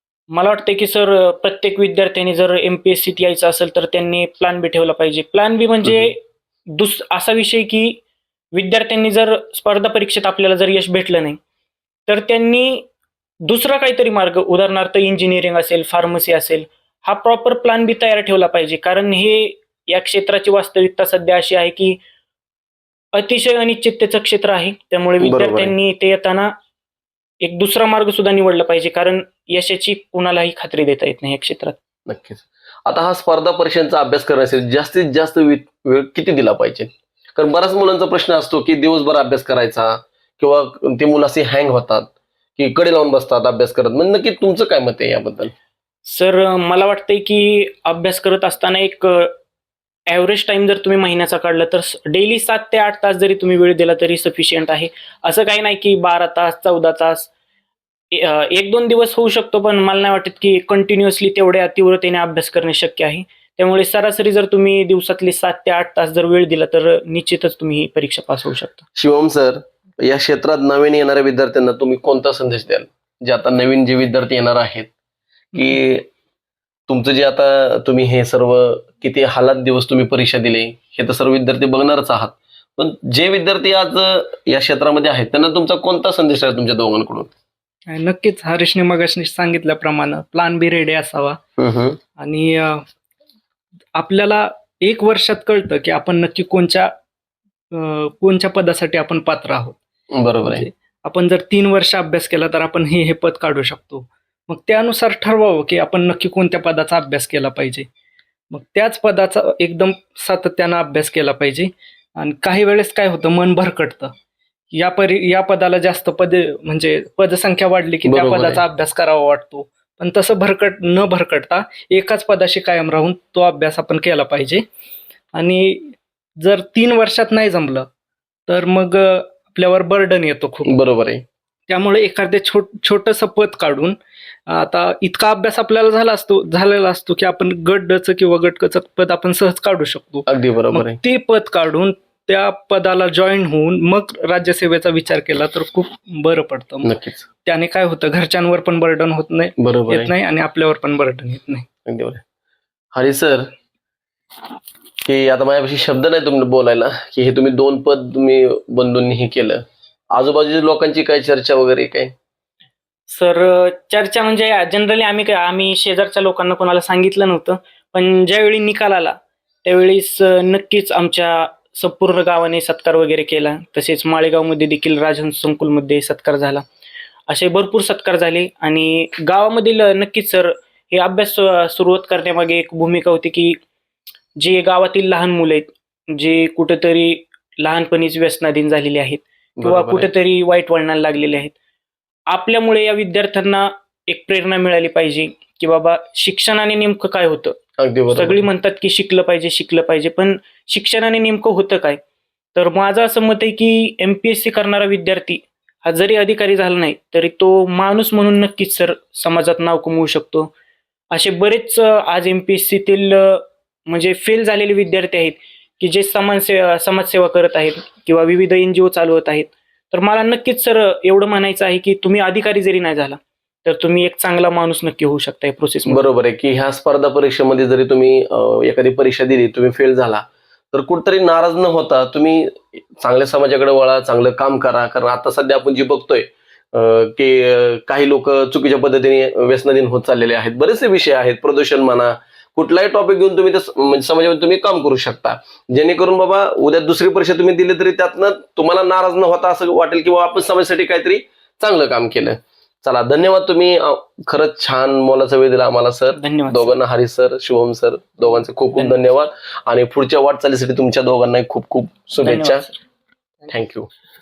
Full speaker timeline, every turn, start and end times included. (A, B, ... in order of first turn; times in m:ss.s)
0:00.3-0:06.2 A
0:06.7-0:08.0 A
0:08.5-0:11.4 A
0:12.1-0:12.9 A
0:13.4-0:22.0 A
0:23.1-0:26.5 A
0:25.2-0:25.7 B
0:27.4-0:31.8 A
0:32.1-0:45.5 B
0:46.0-0:49.4 A
0:50.1-0:57.3 A
0:58.1-1:08.8 A
1:09.0-1:14.9 B
1:15.5-1:16.1 B
1:16.9-1:27.3 B
1:27.9-1:31.4 C
1:31.6-1:32.0 B
1:32.2-1:32.8 C
1:33.9-1:36.9 C
1:37.7-1:39.8 C
1:40.1-1:40.6 B
1:40.4-1:47.9 C
1:48.5-1:54.1 C
1:54.7-2:04.6 C
1:58.0-1:58.6 B
2:05.3-2:07.9 C
2:08.5-2:10.8 C
2:10.6-2:11.2 B
2:11.7-2:14.0 C
2:14.5-2:26.9 C
2:20.2-2:21.0 B
2:26.8-2:27.2 B
2:27.4-2:31.7 C
2:29.6-2:30.1 B
2:31.8-2:32.2 B
2:32.9-2:33.5 B
2:35.0-2:42.1 B
2:43.1-2:56.6 A
2:57.3-3:03.6 A
3:04.4-3:11.5 A
3:09.6-3:10.1 B
3:12.3-3:17.6 A
3:17.8-3:18.4 B
3:18.1-3:22.0 A
3:22.5-3:30.5 A
3:31.1-3:46.1 A
3:45.8-4:22.6 B
4:16.1-4:16.8 A
4:22.2-4:22.8 A
4:23.5-4:23.9 B